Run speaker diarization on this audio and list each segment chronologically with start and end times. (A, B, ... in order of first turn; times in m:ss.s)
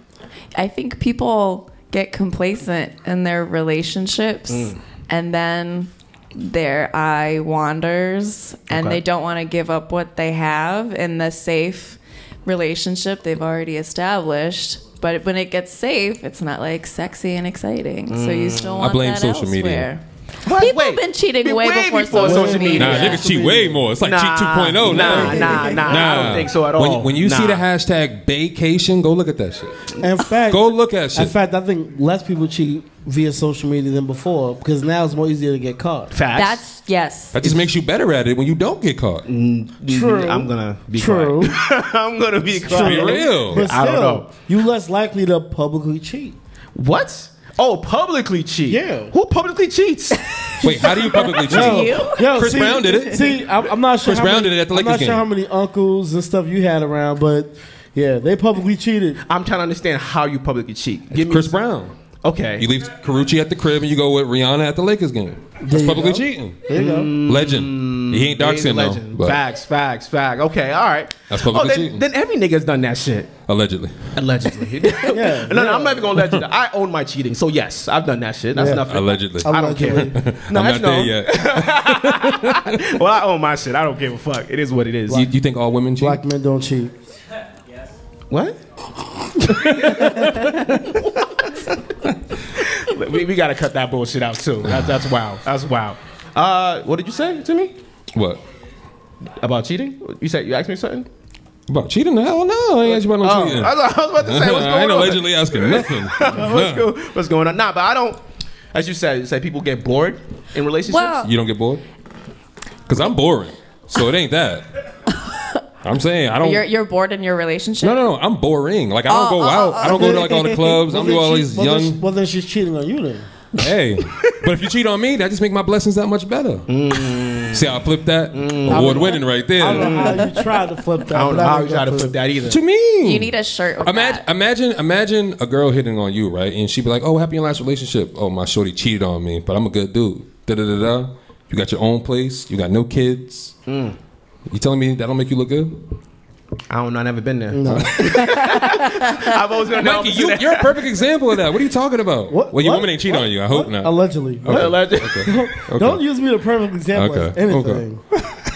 0:00.6-0:23.2 A
0:04.5-0:04.8 B
0:08.7-0:09.0 C
0:18.1-0:18.8 B
0:18.8-0:19.9 C
0:20.4-0:23.3 B
0:22.2-0:23.8 D
0:22.8-0:29.8 C
0:24.0-0:27.6 B
0:24.9-0:26.0 D
0:25.3-0:25.8 A
0:30.0-0:36.1 D
0:30.5-0:31.3 C
0:36.1-0:36.6 B
0:36.3-0:37.4 A
0:37.3-0:39.2 C
0:39.2-0:44.2 B
0:39.9-0:41.6 D
0:42.6-0:46.4 D
0:42.7-0:43.7 C
0:46.7-0:50.6 B
0:48.7-0:49.1 D
0:50.6-0:53.2 C
0:51.1-0:53.2 A
0:51.4-0:59.2 D
0:54.0-0:55.2 C
0:59.2-1:01.6 B
1:01.1-1:01.9 C
1:02.2-1:02.7 B
1:02.6-1:06.6 C
1:05.6-1:07.1 D
1:06.7-1:13.4 B
1:07.2-1:09.4 C
1:11.3-1:12.0 C
1:13.4-1:14.2 C
1:14.2-1:25.2 B
1:15.1-1:16.1 D
1:18.5-1:18.8 D
1:18.9-1:22.8 C
1:19.4-1:20.2 D
1:25.1-1:26.2 C
1:26.0-1:26.9 D
1:28.3-1:28.6 B
1:29.5-1:31.5 B
1:32.6-1:37.7 B
1:34.7-1:34.9 C
1:38.1-1:38.4 C
1:39.4-1:41.1 B
1:41.7-1:46.9 C
1:42.8-1:48.2 B
1:48.7-1:51.2 B
1:50.9-1:51.3 A
1:51.2-1:51.8 C
1:52.9-1:54.6 C
1:55.3-1:55.5 A
1:55.8-1:56.6 C
1:56.4-1:58.0 A
1:57.8-2:02.0 C
1:59.1-2:00.6 A
1:59.8-2:03.3 D
2:03.6-2:10.1 C
2:06.7-2:07.7 B
2:08.3-2:09.2 B
2:08.7-2:12.2 D
2:09.7-2:10.2 B
2:11.1-2:12.6 B
2:12.4-2:23.5 C
2:13.0-2:14.2 A
2:23.7-2:24.0 B
2:24.5-2:25.8 C
2:26.7-2:30.8 B
2:27.5-2:28.1 D
2:27.7-2:28.4 C
2:29.8-2:36.0 C
2:32.3-2:38.0 D
2:34.5-2:35.3 B
2:36.9-2:37.8 C